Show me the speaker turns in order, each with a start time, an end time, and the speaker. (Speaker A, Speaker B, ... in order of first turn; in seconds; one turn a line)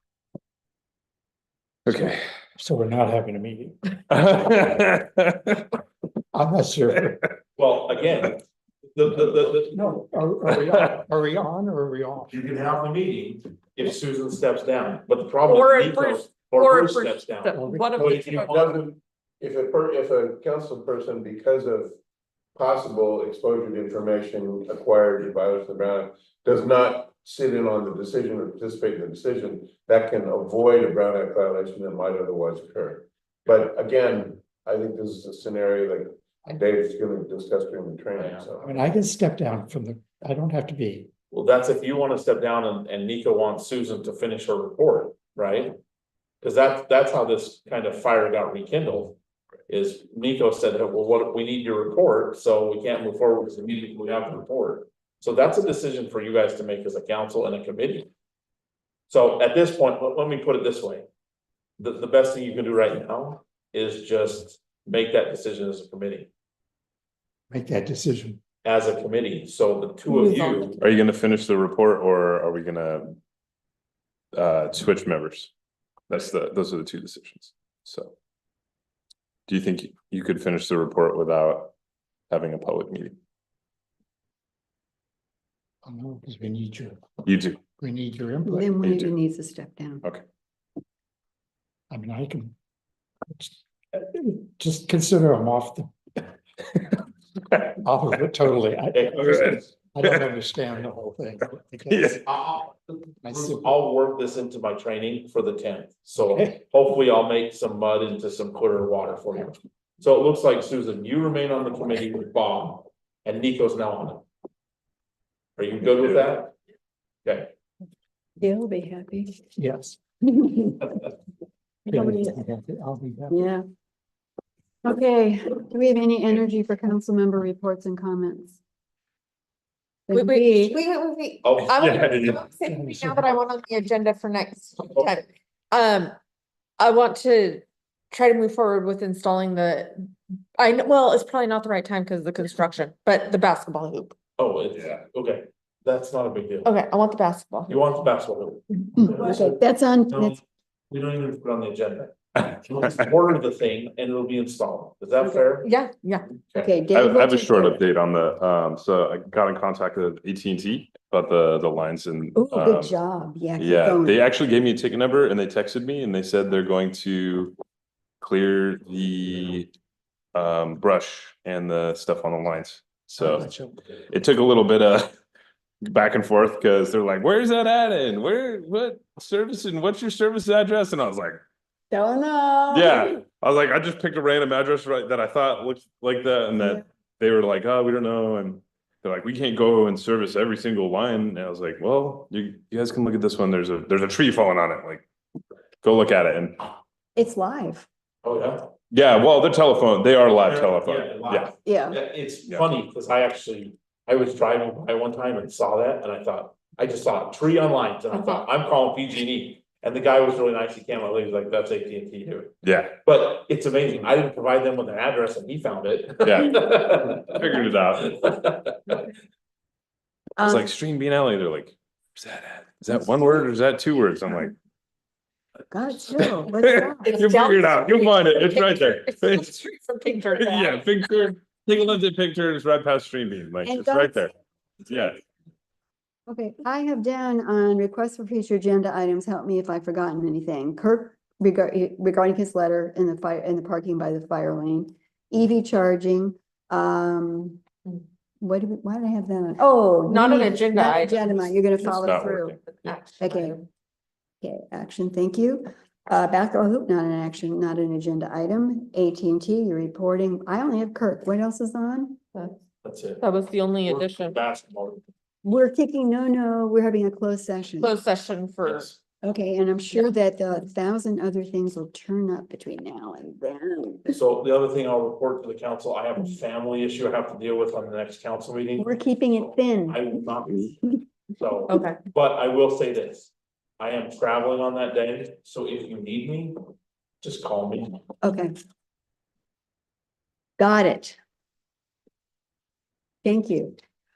Speaker A: 1.9-2.2
Speaker B: 2.6-4.3
Speaker A: 4.1-5.7
Speaker B: 6.3-7.2
Speaker C: 7.6-8.4
Speaker C: 8.9-9.8
Speaker B: 9.7-12.3
Speaker C: 12.3-18.7
Speaker D: 15.5-18.7
Speaker B: 17.5-18.2
Speaker E: 18.0-21.9
Speaker E: 22.6-38.7
Speaker C: 38.2-38.5
Speaker B: 38.6-41.1
Speaker C: 41.3-45.7
Speaker C: 46.4-49.2
Speaker C: 49.7-58.1
Speaker C: 59.1-61.0
Speaker C: 61.8-66.3
Speaker B: 67.5-68.4
Speaker C: 68.6-70.8
Speaker D: 70.1-70.8
Speaker A: 70.8-73.1
Speaker A: 74.3-75.5
Speaker A: 76.1-78.1
Speaker A: 79.5-81.7
Speaker A: 82.3-83.1
Speaker B: 85.8-87.0
Speaker A: 87.2-87.6
Speaker B: 87.7-88.7
Speaker F: 88.5-90.0
Speaker A: 88.8-89.1
Speaker B: 91.9-92.5
Speaker B: 93.3-96.3
Speaker B: 97.7-102.2
Speaker C: 98.9-99.6
Speaker A: 101.9-102.2
Speaker C: 102.2-114.2
Speaker B: 103.2-103.7
Speaker B: 106.3-106.5
Speaker C: 115.6-116.5
Speaker C: 117.2-117.5
Speaker F: 118.4-119.3
Speaker B: 119.6-120.0
Speaker B: 121.9-123.4
Speaker F: 123.3-123.6
Speaker F: 124.8-128.6
Speaker F: 130.1-130.8
Speaker D: 130.1-136.1
Speaker C: 131.4-131.8
Speaker A: 131.7-132.4
Speaker B: 132.5-133.4
Speaker D: 136.8-139.9
Speaker D: 140.6-144.1
Speaker C: 144.4-146.7
Speaker D: 146.6-147.8
Speaker C: 147.7-155.7
Speaker F: 149.0-150.3
Speaker D: 155.6-156.3
Speaker C: 156.3-156.7
Speaker F: 156.6-157.8
Speaker A: 156.9-162.9
Speaker F: 162.5-164.2
Speaker A: 163.6-167.6
Speaker A: 168.2-169.7
Speaker A: 170.3-173.5
Speaker B: 173.2-173.8
Speaker A: 174.1-175.1
Speaker A: 175.9-181.4
Speaker F: 181.9-183.2
Speaker A: 182.7-195.0
Speaker A: 195.8-196.6
Speaker F: 197.2-197.9
Speaker C: 198.2-198.7
Speaker A: 198.9-201.5
Speaker C: 200.4-219.0
Speaker F: 201.7-202.0
Speaker A: 212.6-212.9
Speaker A: 216.2-218.1
Speaker F: 220.4-220.7
Speaker A: 220.4-224.5
Speaker F: 225.7-227.2
Speaker A: 226.2-229.6
Speaker D: 227.0-230.9
Speaker A: 230.3-234.3
Speaker F: 233.6-234.3
Speaker A: 234.8-235.2
Speaker F: 236.3-247.6
Speaker F: 248.4-253.6
Speaker D: 250.1-251.7
Speaker A: 251.8-252.7
Speaker D: 252.8-253.6
Speaker F: 254.4-262.2
Speaker C: 262.8-263.2
Speaker D: 263.2-264.4
Speaker C: 263.8-265.0
Speaker F: 265.4-267.9
Speaker D: 267.8-268.9
Speaker C: 268.6-268.9
Speaker F: 269.2-274.2
Speaker C: 274.1-286.6
Speaker F: 278.8-280.1
Speaker D: 281.7-282.0
Speaker C: 287.2-288.0
Speaker F: 288.2-288.5
Speaker F: 290.6-291.2
Speaker F: 293.2-293.8